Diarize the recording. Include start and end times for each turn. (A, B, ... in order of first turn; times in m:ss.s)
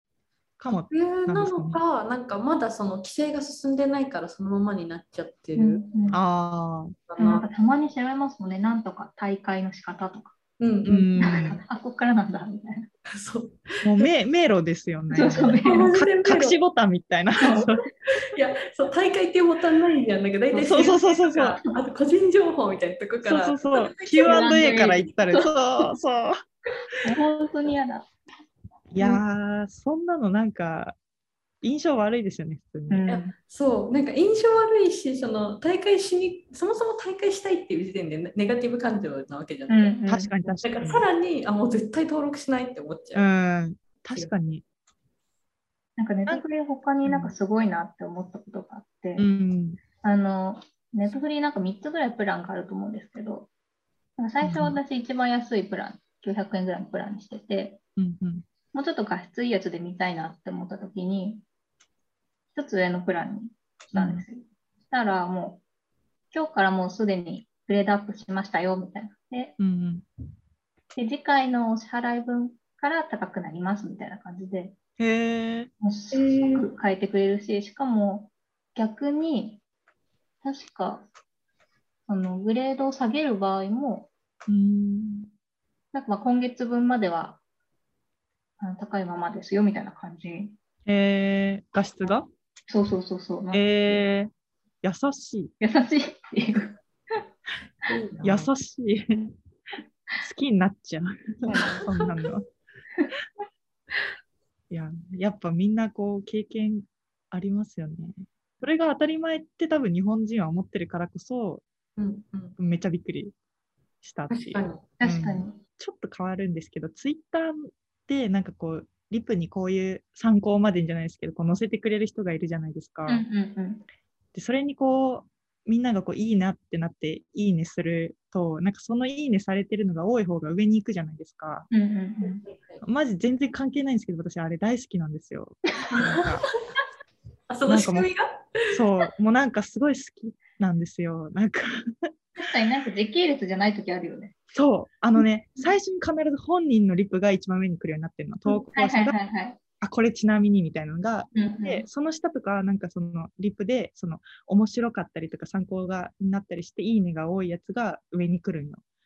0:00.6-0:01.8 A
0:00.7-0:05.8 B
0:05.6-0:06.2 C
0:06.1-0:07.0 A
0:07.1-0:07.5 B
0:07.2-0:10.3 C
0:10.6-0:11.1 B
0:10.8-0:11.6 A
0:11.2-0:12.9 C
0:13.1-0:13.7 B
0:13.8-0:17.8 A
0:15.1-0:15.9 C
0:15.6-0:16.6 B
0:17.4-0:17.7 C
0:18.3-0:24.4 B
0:20.5-0:21.0 C
0:20.7-0:21.6 A
0:23.2-0:26.4 A
0:24.2-0:25.6 C
0:27.0-0:28.1 C
0:28.9-0:31.0 A
0:31.6-0:33.0 A
0:32.9-0:33.3 C
0:33.1-0:40.0 B
0:39.7-0:40.3 C
0:40.1-0:41.1 A
0:40.6-0:43.3 B
0:43.2-0:44.6 A
0:46.0-0:49.3 C
0:47.0-0:47.4 A
0:49.2-0:49.8 A
0:50.0-0:53.5 C
0:54.2-0:57.8 C
0:54.4-0:54.8 A
0:58.0-0:58.4 A
0:58.7-1:01.4 C
1:02.5-1:05.6 C
1:03.9-1:04.2 A
1:06.3-1:09.6 C
1:09.6-1:10.0 A
1:11.0-1:14.8 C
1:15.0-1:15.7 A
1:15.8-1:19.6 C
1:16.1-1:16.7 B
1:20.4-1:21.1 C
1:22.1-1:24.1 C
1:24.5-1:25.3 A
1:25.9-1:27.4 C
1:28.6-1:30.6 C
1:30.9-1:32.3 A
1:32.7-1:34.1 C
1:33.5-1:34.3 A
1:34.8-1:35.5 A
1:35.6-1:37.2 C
1:37.9-1:38.5 B
1:38.2-1:39.3 A
1:40.2-1:42.5 A
1:41.5-1:41.8 C
1:41.5-1:41.8 B
1:44.7-1:51.6 A
1:52.0-1:52.6 B
1:52.6-1:53.4 A
1:54.0-2:03.2 A
1:54.3-1:54.9 B
1:55.0-1:55.6 C
2:03.1-2:03.9 C
2:04.4-2:11.7 A
2:11.7-2:12.4 C
2:12.2-2:12.8 B
2:12.8-2:16.4 A
2:15.9-2:16.5 B
2:17.5-2:18.4 B
2:17.7-2:18.1 A
2:18.7-2:21.9 A
2:22.4-2:24.3 C
2:24.5-2:29.2 A
2:28.5-2:29.6 C
2:29.8-2:38.8 A
2:31.3-2:31.9 C